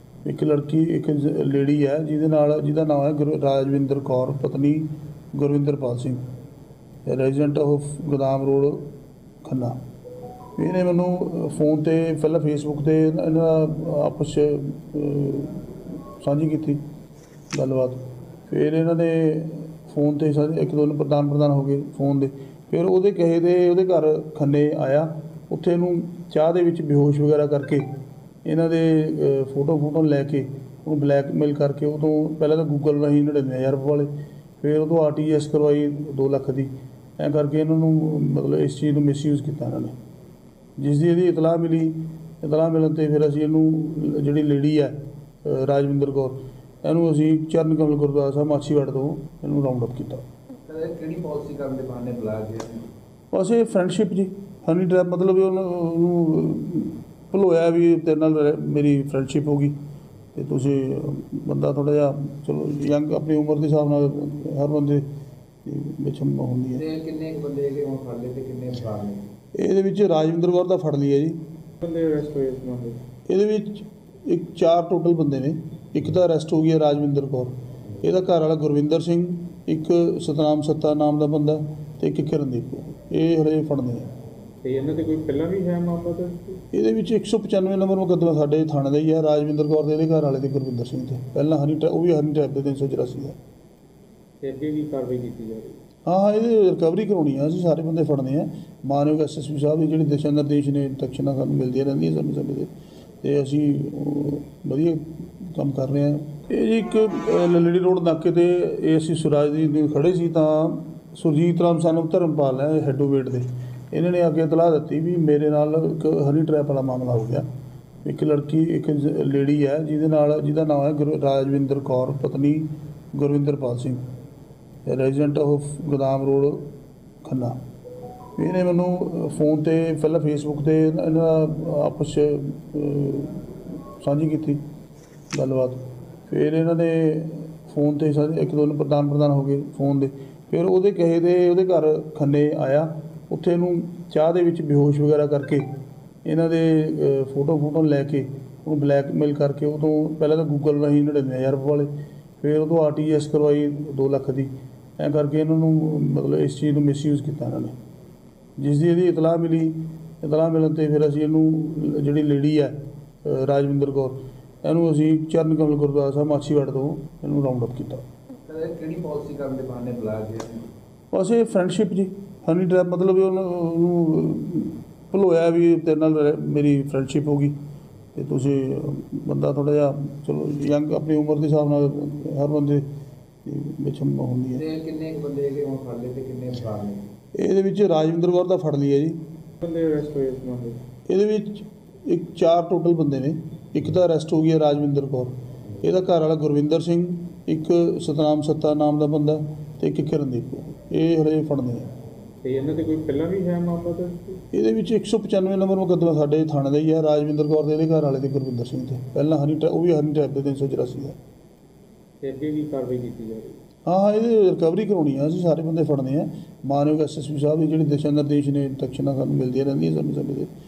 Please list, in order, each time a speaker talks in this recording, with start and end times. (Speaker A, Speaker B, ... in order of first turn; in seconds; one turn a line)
Speaker A: 0.2-6.2
Speaker A: 7.1-8.9
Speaker A: 9.4-9.8
Speaker A: 10.6-16.8
Speaker A: 17.5-27.9
Speaker A: 28.4-34.1
Speaker A: 34.6-40.0
Speaker A: 40.8-50.2
Speaker B: 50.7-52.8
Speaker A: 53.3-59.8
Speaker A: 60.3-65.0
Speaker A: 65.7-66.8
Speaker B: 66.7-69.2
Speaker A: 69.5-71.4
Speaker C: 71.8-73.0
Speaker A: 73.3-84.1
Speaker C: 84.6-86.6
Speaker A: 86.7-93.4
Speaker C: 94.4-95.8
Speaker A: 96.1-102.7
Speaker A: 103.2-117.5
Speaker A: 118.0-124.0
Speaker A: 124.9-126.7
Speaker A: 127.2-127.6
Speaker A: 128.4-134.6
Speaker A: 135.3-145.7
Speaker A: 146.2-151.9
Speaker A: 152.4-157.7
Speaker A: 158.6-168.0
Speaker B: 168.5-170.7
Speaker A: 171.1-177.6
Speaker A: 178.2-182.9
Speaker A: 183.4-184.6
Speaker B: 184.6-187.0
Speaker A: 187.3-189.2
Speaker C: 189.6-190.8
Speaker A: 191.1-201.9
Speaker C: 202.4-204.4
Speaker A: 204.5-211.2
Speaker C: 212.2-213.6
Speaker A: 213.9-220.5